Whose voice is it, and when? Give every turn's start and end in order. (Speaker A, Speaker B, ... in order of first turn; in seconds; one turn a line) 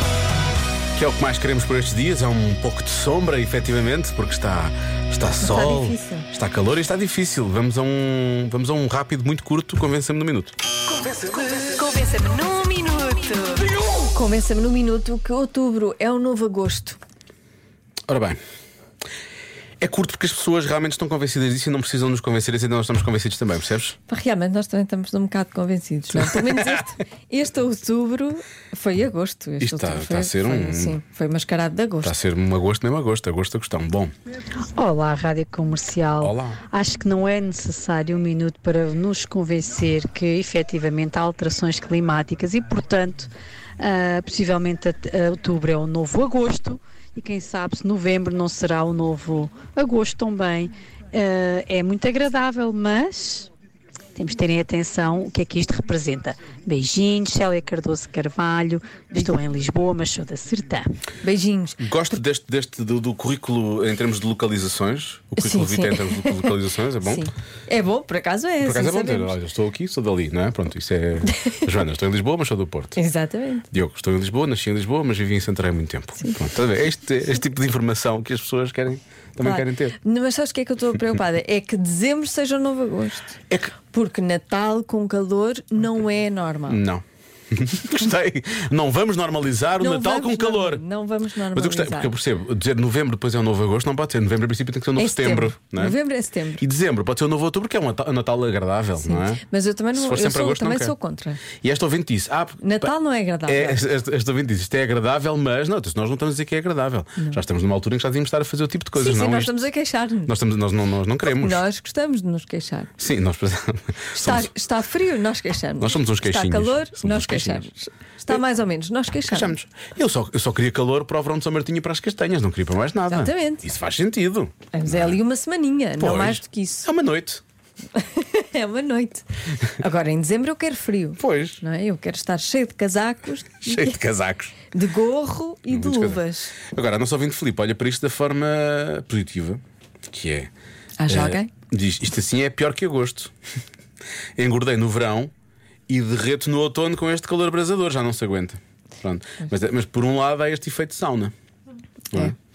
Speaker A: 0.9-10.5
Speaker B: 5.4-6.3
Speaker B: 11.0-17.0
Speaker A: 18.1-18.4
Speaker A: 19.8-24.0
Speaker B: 24.1-32.1
Speaker A: 29.6-31.0
Speaker A: 32.0-34.1
Speaker C: 34.8-53.5
Speaker A: 36.2-36.6
Speaker C: 54.1-60.8
Speaker B: 61.2-61.8
Speaker A: 61.8-67.3
Speaker B: 65.4-69.3
Speaker A: 68.6-73.0
Speaker B: 71.3-71.7
Speaker B: 73.0-73.7
Speaker A: 73.7-80.0
Speaker B: 79.4-83.4
Speaker B: 83.9-86.8
Speaker A: 86.7-90.8
Speaker B: 89.8-92.1
Speaker A: 91.5-96.0
Speaker B: 95.0-96.6
Speaker A: 96.5-100.9
Speaker B: 99.0-101.4
Speaker A: 101.5-102.9
Speaker B: 102.6-103.8
Speaker A: 103.5-109.5
Speaker B: 109.0-110.3
Speaker A: 110.2-111.6
Speaker B: 111.3-112.9
Speaker A: 113.0-114.5
Speaker B: 114.1-119.5
Speaker A: 115.8-117.7
Speaker A: 119.2-125.2
Speaker B: 123.1-123.6
Speaker B: 124.7-126.9
Speaker A: 126.0-127.4
Speaker B: 127.9-134.0
Speaker A: 131.2-131.6
Speaker A: 133.6-134.6
Speaker B: 134.7-136.6
Speaker A: 135.7-140.5
Speaker B: 141.0-141.5
Speaker A: 141.1-143.3
Speaker A: 144.4-145.3
Speaker A: 145.9-151.3